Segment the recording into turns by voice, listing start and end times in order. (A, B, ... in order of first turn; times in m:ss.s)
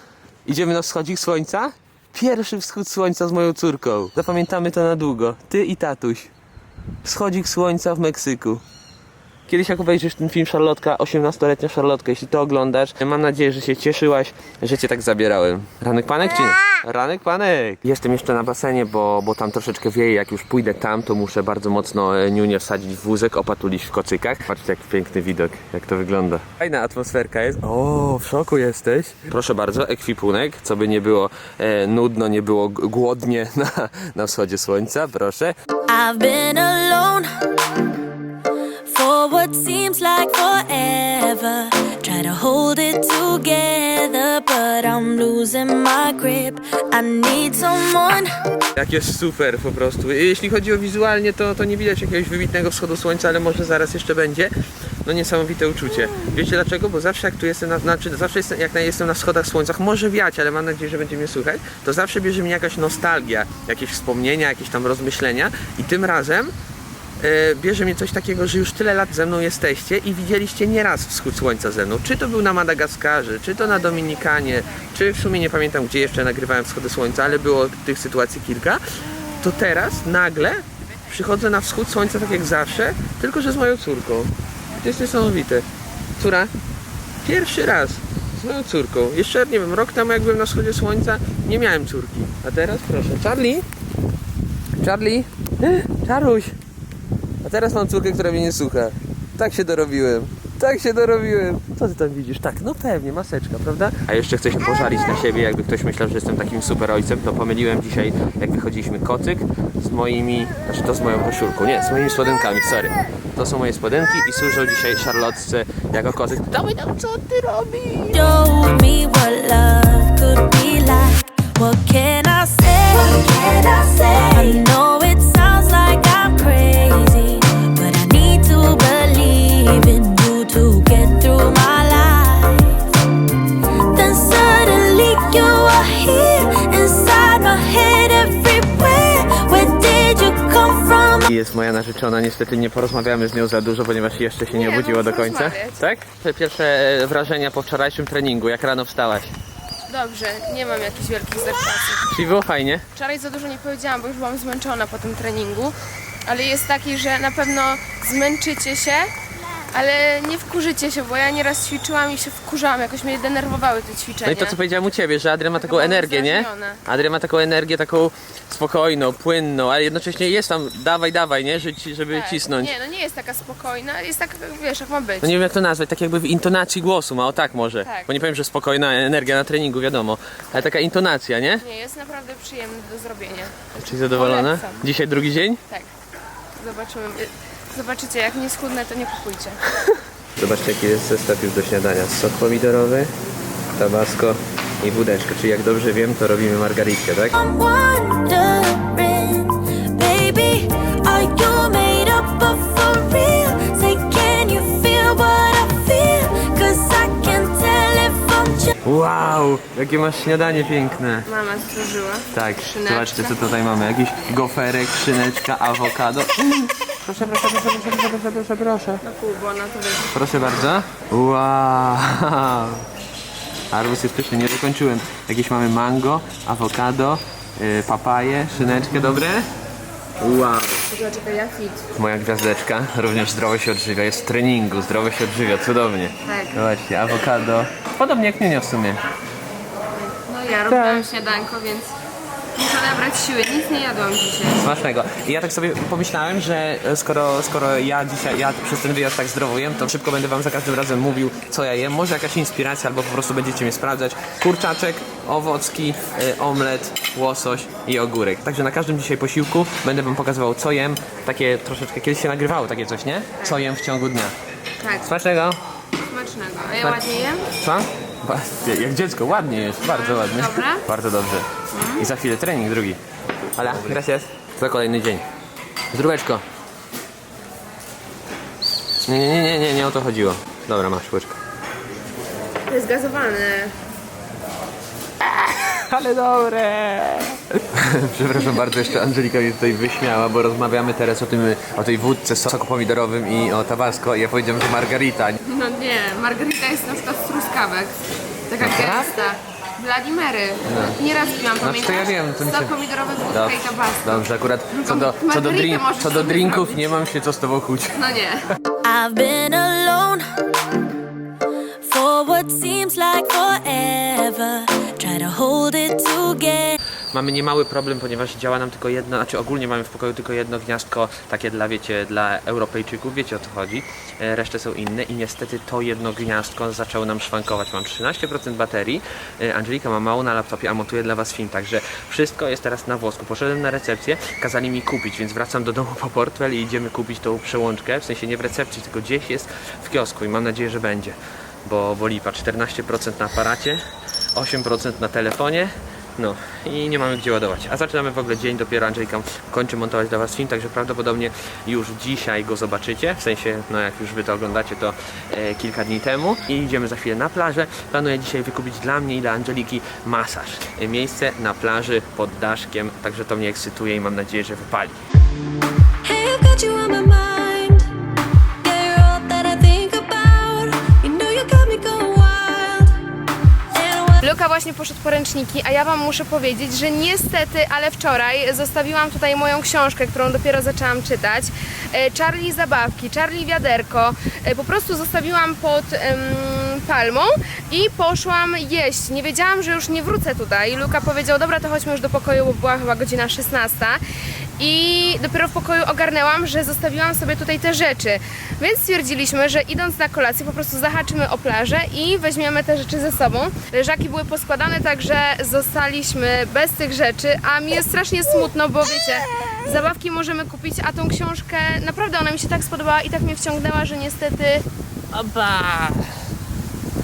0:00.4-0:06.3 A
0:07.0-0:08.6 A
0:09.5-0:35.5 A
0:35.9-0:37.3 B
0:38.9-0:48.3 B
0:48.7-0:54.5 A
0:55.0-1:06.5 A
1:07.2-1:18.8 A
1:19.4-1:25.6 A
1:26.2-1:26.5 A
1:27.2-1:33.6 A
1:34.8-1:36.6 A
1:37.4-1:58.3 A
1:58.1-2:12.8 B
2:13.9-2:21.3 B
2:21.2-2:29.3 A
2:24.5-2:25.8 C
2:29.9-2:32.1 C
2:32.1-2:32.8 A
2:32.9-2:39.1 C
2:39.7-2:44.6 C
2:44.2-2:52.7 A
2:45.6-2:46.8 C
2:52.1-2:55.4 C
2:55.2-3:01.6 A
2:57.8-2:58.1 C
3:01.6-3:04.8 C
3:03.7-3:05.6 A
3:06.6-3:09.6 C
3:09.8-3:13.1 A
3:13.7-3:17.4 A
3:17.3-3:28.7 B
3:28.8-3:31.3 A
3:31.3-3:33.4 C
3:32.3-3:39.0 A
3:39.0-3:40.1 C
3:40.1-3:42.8 A
3:43.7-3:49.5 A
3:50.2-3:50.8 A
3:50.9-3:51.8 C
3:51.9-3:59.0 A
3:56.2-3:56.7 C
4:00.0-4:01.9 C
4:00.7-4:01.1 A
4:02.6-4:04.6 C
4:04.6-4:24.3 A
4:24.8-4:25.1 C
4:25.0-4:25.6 A
4:26.1-4:27.5 C
4:27.5-4:33.0 A
4:29.8-4:30.8 C
4:31.7-4:32.0 C
4:33.6-4:35.2 A
4:35.9-4:36.4 A
4:39.0-4:41.4 A
4:42.7-4:43.7 C
4:45.2-4:55.4 A
4:55.4-4:57.9 C
4:58.5-5:07.0 C
4:58.6-4:59.3 A
5:00.6-5:01.0 A
5:01.6-5:02.7 A
5:03.3-5:08.0 A
5:07.9-5:08.4 C
5:08.8-5:10.2 B
5:11.8-5:16.8 B
5:17.1-5:43.8 A
5:44.3-6:05.0 A
6:06.0-6:07.9 B
6:08.6-6:13.0 B
6:13.7-6:14.3 B
6:14.2-6:34.0 C
6:34.6-6:54.6 C
6:55.1-6:56.1 A